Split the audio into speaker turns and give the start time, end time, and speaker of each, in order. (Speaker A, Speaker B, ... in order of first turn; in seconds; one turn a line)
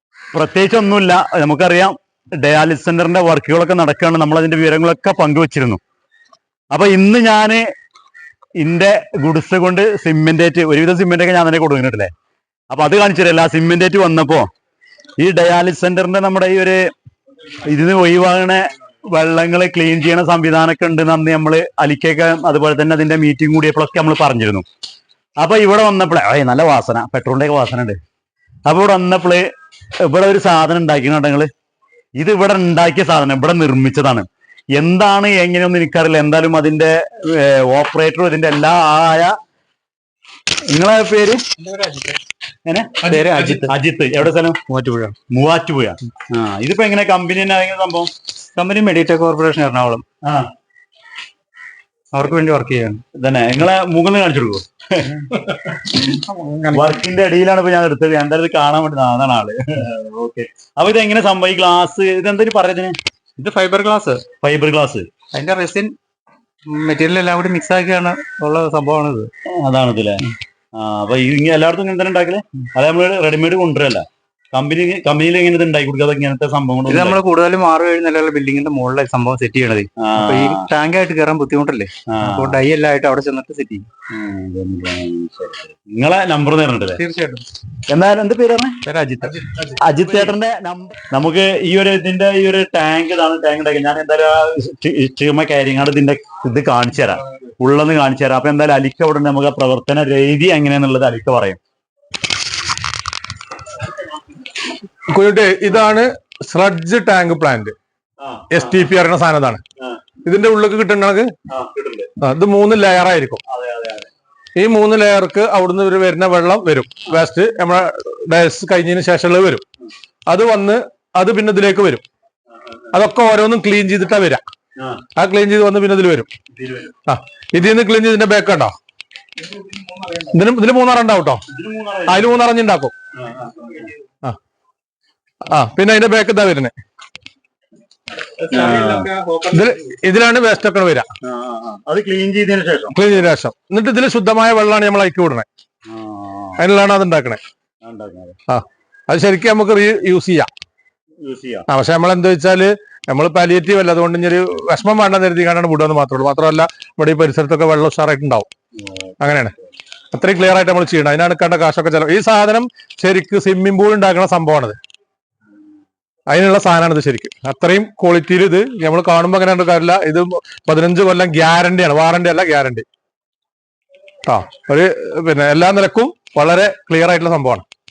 Speaker A: 0.3-5.8
Speaker A: 6.7-7.6
Speaker A: 8.6-12.1
Speaker A: 12.7-14.5
Speaker A: 15.2-16.8
Speaker A: 17.6-24.7
Speaker A: 25.4-28.0
Speaker A: 28.7-29.5
Speaker A: 30.0-31.5
Speaker A: 32.2-39.4
Speaker A: 40.7-41.4
Speaker B: 41.6-42.2
Speaker A: 42.7-44.6
Speaker B: 43.0-43.7
Speaker B: 44.7-45.2
Speaker A: 45.3-48.1
Speaker B: 48.5-50.0
Speaker A: 50.2-50.5
Speaker B: 52.1-53.0
Speaker A: 53.1-56.1
Speaker B: 56.0-57.0
Speaker A: 56.7-63.0
Speaker B: 63.4-64.2
Speaker A: 64.4-65.1
Speaker B: 65.3-66.0
Speaker B: 66.7-69.3
Speaker A: 69.5-77.2
Speaker B: 76.9-83.9
Speaker A: 80.0-80.7
Speaker A: 82.1-82.6
Speaker A: 84.1-87.0
Speaker B: 87.0-87.5
Speaker A: 87.9-88.8
Speaker B: 88.8-89.5
Speaker A: 89.7-101.6
Speaker C: 105.1-107.8
Speaker A: 108.2-108.9
Speaker C: 108.5-109.6
Speaker C: 110.2-111.3
Speaker A: 111.5-112.1
Speaker C: 112.2-113.4
Speaker A: 113.4-114.1
Speaker C: 114.6-119.6
Speaker C: 120.3-122.0
Speaker A: 122.5-123.0
Speaker C: 122.9-124.4
Speaker A: 124.8-125.1
Speaker C: 125.2-126.3
Speaker A: 126.5-127.0
Speaker C: 127.1-128.7
Speaker B: 129.5-130.3
Speaker C: 130.3-131.4
Speaker A: 131.5-132.3
Speaker C: 132.1-132.9
Speaker A: 133.2-133.9
Speaker C: 135.5-136.7
Speaker B: 138.4-139.8
Speaker A: 138.4-139.1
Speaker C: 139.5-141.1
Speaker A: 141.2-143.0
Speaker C: 142.9-145.5
Speaker A: 145.9-146.6
Speaker C: 146.6-147.4
Speaker A: 147.8-148.4
Speaker C: 148.5-150.5
Speaker A: 151.2-151.7
Speaker C: 151.7-158.5
Speaker A: 158.8-159.2
Speaker C: 159.2-159.5
Speaker C: 160.1-164.8
Speaker C: 166.3-172.8
Speaker C: 174.2-177.6